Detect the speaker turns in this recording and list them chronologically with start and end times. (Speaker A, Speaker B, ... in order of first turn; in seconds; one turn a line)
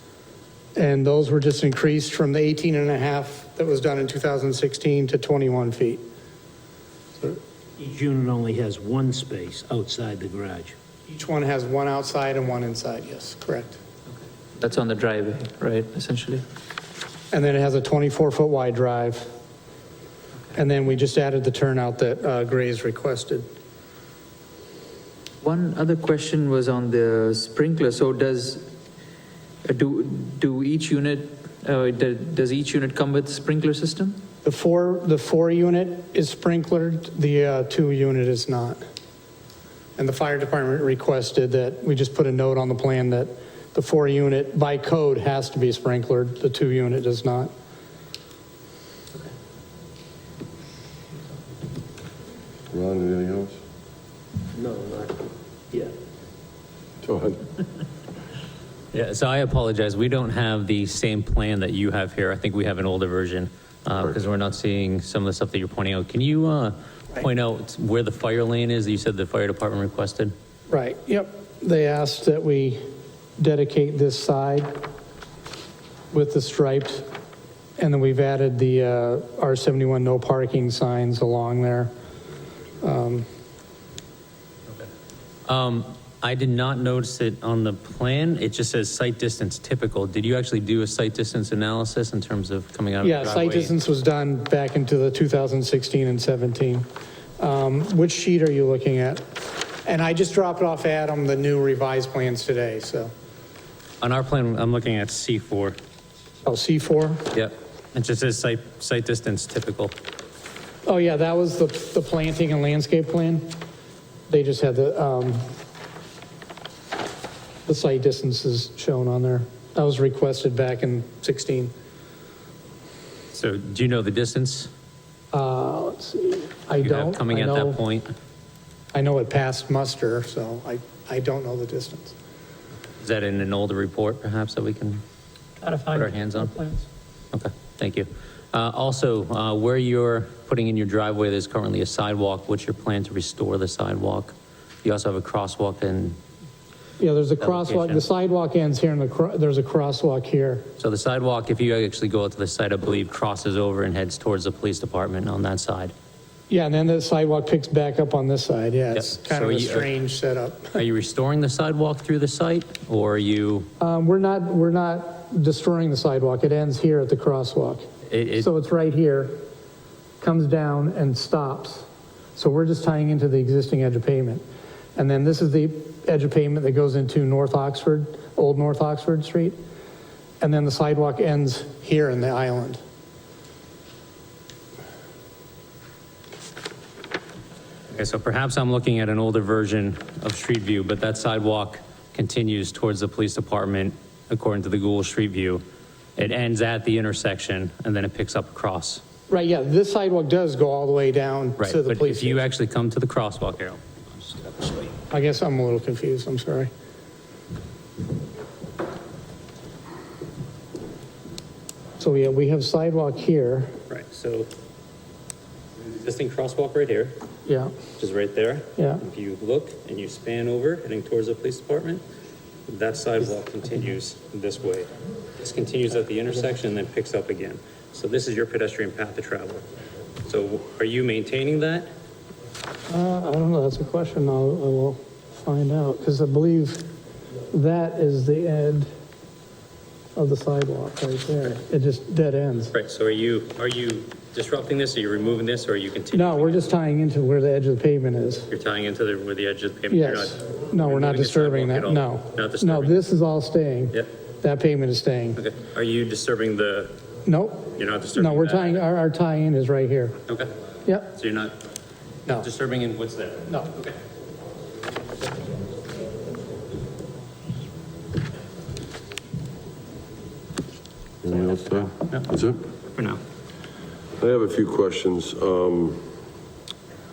Speaker A: 0.7-6.0
Speaker B: 7.8-10.7
Speaker A: 11.1-13.8
Speaker C: 14.6-16.4
Speaker A: 17.3-19.3
Speaker A: 20.5-23.4
Speaker C: 25.4-28.7
Speaker C: 29.6-34.2
Speaker A: 34.4-38.8
Speaker A: 40.0-47.5
Speaker D: 52.7-53.6
Speaker B: 54.6-55.1
Speaker D: 57.0-57.5
Speaker E: 58.9-70.3
Speaker A: 70.7-72.8
Speaker A: 73.4-74.7
Speaker A: 76.1-77.1
Speaker A: 77.8-81.9
Speaker A: 82.8-83.2
Speaker E: 85.5-93.7
Speaker A: 93.0-96.9
Speaker A: 97.4-99.2
Speaker A: 99.8-103.1
Speaker E: 104.0-105.8
Speaker A: 106.4-107.3
Speaker E: 107.3-109.9
Speaker A: 110.8-113.5
Speaker A: 114.3-115.5
Speaker A: 117.7-121.7
Speaker E: 123.3-124.7
Speaker A: 125.3-127.8
Speaker E: 126.8-128.1
Speaker A: 128.9-132.1
Speaker E: 133.0-135.0
Speaker A: 135.6-136.8
Speaker E: 135.9-136.5
Speaker E: 137.3-146.2
Speaker A: 147.0-150.6
Speaker E: 147.4-148.0
Speaker E: 150.8-155.9
Speaker A: 156.5-160.8
Speaker E: 158.9-159.9
Speaker E: 160.7-163.7
Speaker A: 163.8-167.8
Speaker E: 168.1-168.5
Speaker A: 168.4-169.4
Speaker A: 170.2-174.4
Speaker A: 174.9-179.6
Speaker A: 180.4-182.8
Speaker E: 187.9-195.6
Speaker E: 196.2-199.0
Speaker A: 199.3-202.4
Speaker E: 201.6-204.9
Speaker A: 205.1-206.7
Speaker A: 212.0-213.7
Speaker E: 213.9-214.5
Speaker E: 216.0-217.2
Speaker A: 217.4-217.7
Speaker E: 218.0-222.0
Speaker A: 218.8-219.0
Speaker E: 222.7-229.6
Speaker E: 230.2-231.9
Speaker A: 232.9-236.9
Speaker A: 237.5-238.9
Speaker A: 240.2-242.7
Speaker E: 242.7-246.7
Speaker A: 246.1-248.5
Speaker E: 248.5-253.0
Speaker A: 249.9-255.4
Speaker E: 255.4-256.9
Speaker A: 257.2-260.2
Speaker E: 257.7-258.8
Speaker A: 260.9-261.1
Speaker E: 261.1-261.5
Speaker E: 262.4-263.9
Speaker D: 271.2-272.6
Speaker E: 272.9-273.2
Speaker D: 274.2-276.0